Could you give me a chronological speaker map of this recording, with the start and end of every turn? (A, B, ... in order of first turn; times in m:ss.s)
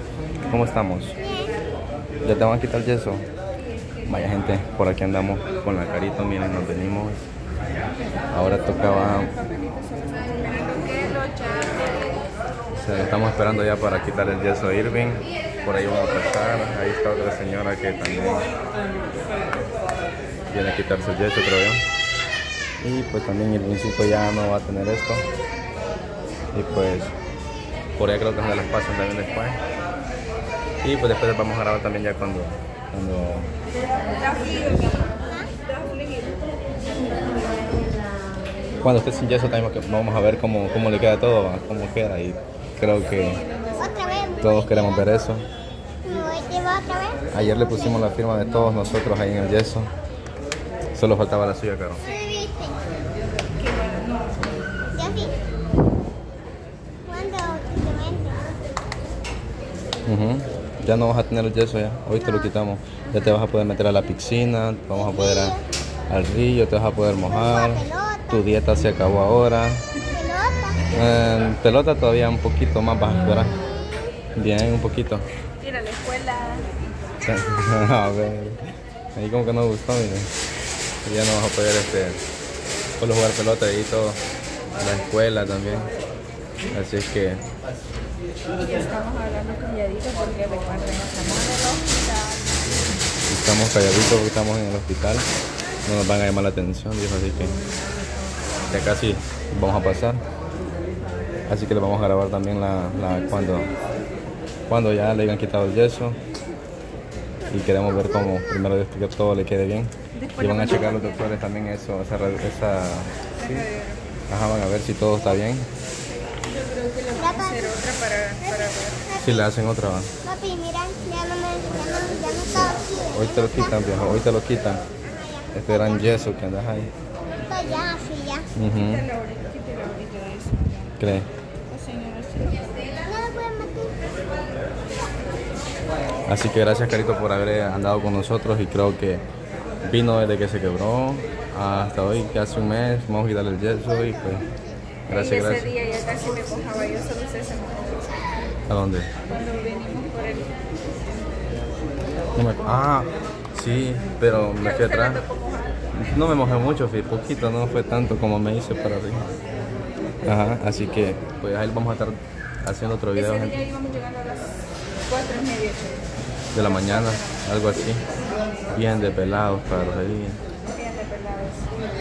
0:00.4-0:01.2 A
0:01.2-0:01.5 B
0:02.2-0:03.2 A
0:04.0-0:07.2 A
0:08.3-0:09.3 A
0:08.7-0:12.1 C
0:12.8-0:18.5 A
0:20.5-0:21.8 A
0:22.8-0:25.2 A
0:26.5-0:27.1 A
0:28.0-0:29.6 A
0:30.8-0:33.5 A
0:34.2-0:36.4 C
0:38.8-0:43.4 A
0:43.1-0:44.3 C
0:43.8-0:45.0 B
0:44.4-0:45.4 A
0:46.0-0:47.2 B
0:47.3-0:49.9 A
0:50.9-0:52.0 A
0:52.1-0:52.4 C
0:52.1-0:52.8 B
0:53.6-0:54.3 C
0:55.0-0:55.3 B
0:57.1-0:58.5 B
1:00.0-1:09.8 A
1:05.1-1:05.6 B
1:07.6-1:08.3 B
1:10.1-1:10.8 B
1:10.9-1:13.5 A
1:14.3-1:15.2 A
1:15.6-1:16.7 C
1:17.2-1:20.3 A
1:21.0-1:22.2 A
1:23.0-1:24.2 A
1:24.8-1:25.9 A
1:26.7-1:27.4 A
1:28.6-1:32.5 C
1:33.3-1:35.2 A
1:35.8-1:37.6 A
1:38.7-1:40.2 A
1:41.5-1:43.7 A
1:44.7-1:46.2 A
1:47.5-1:53.6 A
1:50.2-1:51.3 C
1:53.4-1:54.0 C
1:54.3-1:55.7 A
1:56.4-1:59.2 C
1:57.2-1:57.7 B
1:59.2-2:00.1 A
2:00.2-2:03.6 B
2:02.5-2:04.8 A
2:05.2-2:05.8 B
2:05.5-2:06.9 A
2:07.5-2:08.5 B
2:08.5-2:09.0 A
2:08.7-2:11.0 C
2:11.0-2:11.3 A
2:11.7-2:12.9 C
2:13.0-2:14.3 B
2:16.2-2:19.2 A
2:19.8-2:24.5 A
2:25.1-2:25.7 A
2:25.1-2:28.1 C
2:28.7-2:29.1 A
2:29.3-2:30.5 C
2:32.4-2:35.2 A
2:34.6-2:35.9 C
2:35.9-2:39.3 A
2:40.2-2:43.6 A
2:43.1-2:46.0 C
2:46.5-2:48.0 A
2:46.6-2:47.4 C
2:48.7-2:50.4 A
2:50.7-2:51.7 C